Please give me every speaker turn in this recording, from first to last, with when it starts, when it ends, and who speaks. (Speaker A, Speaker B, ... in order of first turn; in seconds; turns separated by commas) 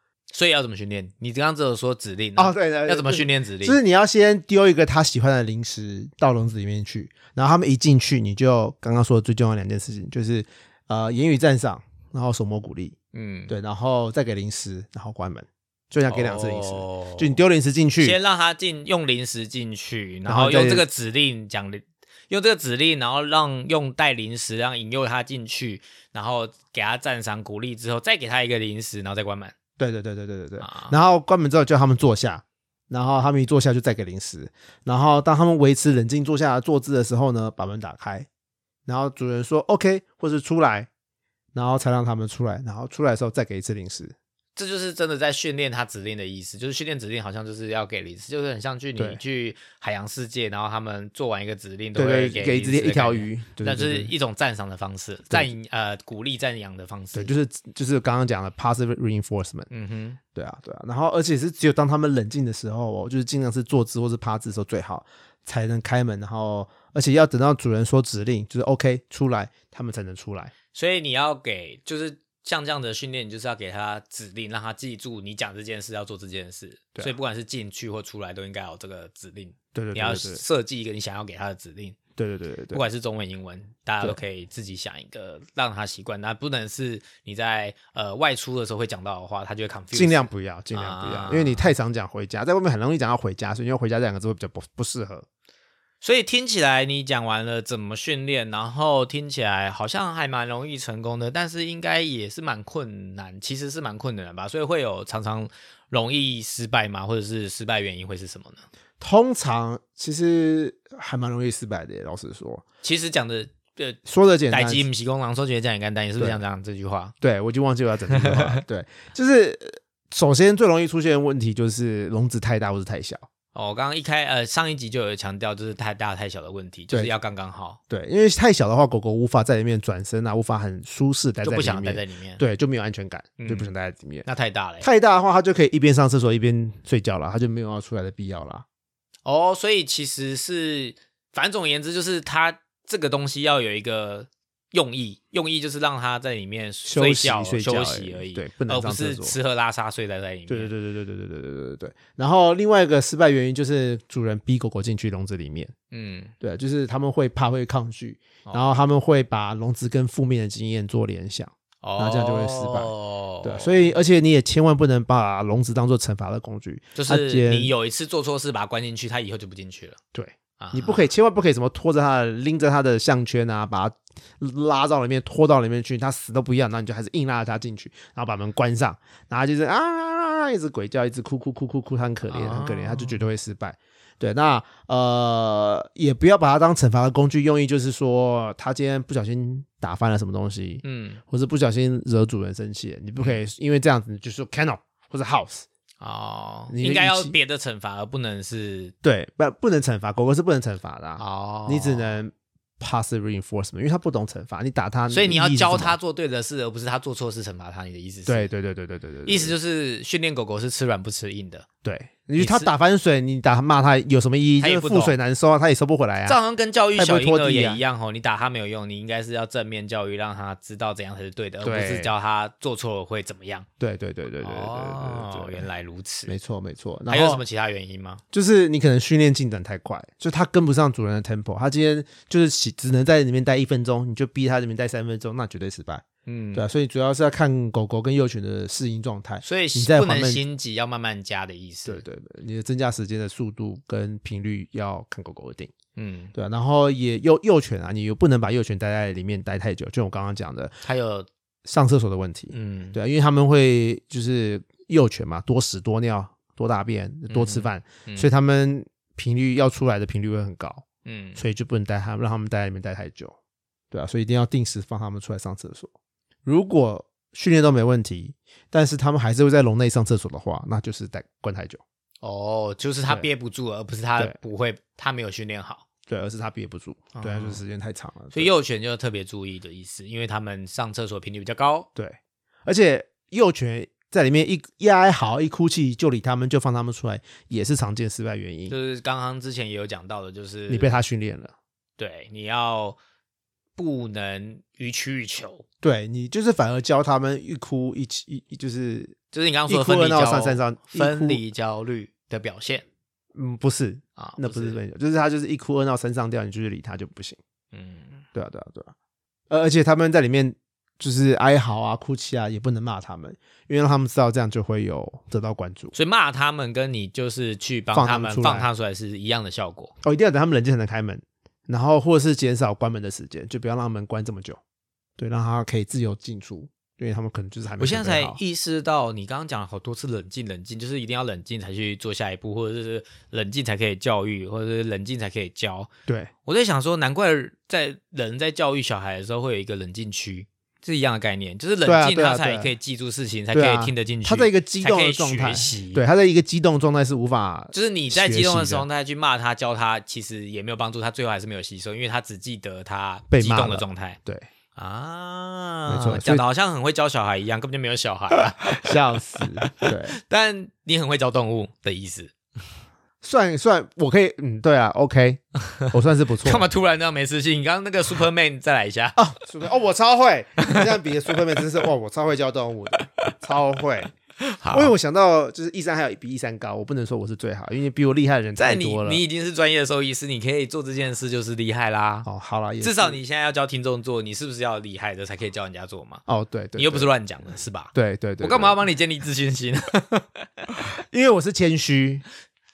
Speaker A: 0.3-3.8, Speaker B: 2.4-12.9, Speaker A: 13.1-13.5, Speaker B: 13.5-18.2, Speaker A: 16.1-17.4, Speaker A: 18.0-29.5, Speaker B: 20.2-20.9, Speaker B: 29.8-38.3, Speaker A: 30.6-30.9, Speaker B: 38.9-40.9, Speaker B: 41.5-44.1, Speaker A: 44.5-57.3, Speaker B: 52.0-54.1, Speaker B: 57.1-59.7, Speaker A: 59.7-60.2, Speaker B: 60.3-70.5, Speaker A: 70.7-82.0, Speaker B: 79.7-80.4, Speaker B: 82.2-82.8, Speaker A: 82.7-91.7, Speaker B: 89.9-95.2, Speaker A: 96.0-108.7, Speaker B: 109.0-112.6, Speaker A: 112.8-117.1, Speaker B: 114.0-114.8, Speaker B: 117.2-123.2, Speaker A: 118.1-118.6, Speaker A: 123.5-127.8, Speaker B: 127.9-134.2, Speaker A: 131.4-132.4, Speaker A: 133.4-133.7, Speaker A: 134.2-134.9, Speaker B: 134.8-138.6, Speaker A: 139.2-150.7, Speaker B: 146.8-149.3, Speaker B: 150.5-155.7, Speaker A: 155.9-156.3, Speaker B: 156.4-162.9, Speaker A: 161.8-163.9, Speaker B: 163.4-167.7, Speaker A: 166.9-170.0, Speaker B: 170.1-195.7, Speaker A: 170.6-171.1, Speaker A: 182.3-183.2, Speaker A: 190.8-191.2, Speaker A: 196.0-198.9, Speaker B: 196.7-197.3, Speaker B: 199.0-206.0, Speaker A: 201.2-202.2, Speaker A: 205.1-208.5, Speaker B: 208.2-209.5, Speaker A: 209.2-211.7, Speaker B: 211.8-216.4, Speaker A: 212.4-212.7, Speaker A: 214.6-215.1, Speaker A: 216.2-223.7, Speaker B: 216.9-217.8, Speaker B: 221.6-222.1, Speaker B: 223.8-225.7, Speaker A: 224.4-226.3, Speaker B: 226.3-227.4, Speaker A: 227.1-228.2, Speaker B: 228.3-240.4, Speaker A: 236.2-236.7, Speaker A: 239.4-242.0, Speaker B: 241.8-245.7, Speaker A: 245.9-246.3, Speaker B: 246.3-250.7, Speaker A: 250.8-251.3, Speaker B: 251.6-260.8, Speaker A: 252.5-253.0, Speaker A: 257.3-258.3, Speaker A: 261.0-261.4, Speaker B: 261.4-263.4, Speaker B: 263.9-265.9, Speaker B: 266.4-271.8, Speaker A: 272.2-275.8, Speaker B: 276.1-278.5, Speaker A: 277.1-277.6, Speaker A: 278.3-281.9, Speaker B: 281.9-288.7, Speaker A: 288.7-291.0, Speaker B: 290.7-291.5, Speaker A: 292.0-293.0, Speaker A: 293.8-295.6, Speaker B: 295.8-299.1, Speaker A: 299.3-302.8, Speaker B: 299.7-301.4, Speaker B: 303.3-307.4, Speaker A: 304.2-304.8, Speaker A: 307.7-308.2, Speaker B: 308.3-308.9, Speaker B: 309.5-315.9, Speaker A: 315.9-319.9, Speaker B: 317.9-318.7, Speaker B: 320.0-324.6, Speaker B: 325.2-328.4, Speaker A: 327.8-335.9, Speaker A: 336.4-346.0, Speaker B: 341.8-342.7, Speaker B: 343.5-348.8, Speaker A: 347.7-354.2, Speaker B: 353.3-354.4, Speaker A: 354.7-358.9, Speaker B: 355.9-356.4, Speaker B: 358.6-360.2, Speaker A: 359.6-362.3, Speaker B: 363.2-366.7, Speaker A: 366.4-369.2, Speaker B: 369.2-374.1, Speaker A: 370.6-370.9, Speaker A: 373.0-373.3, Speaker A: 374.4-374.9, Speaker B: 374.7-379.2, Speaker A: 378.6-382.3, Speaker B: 382.2-383.2, Speaker A: 382.8-386.2, Speaker B: 386.3-387.1, Speaker A: 386.8-390.7, Speaker B: 387.9-388.8, Speaker B: 390.7-392.2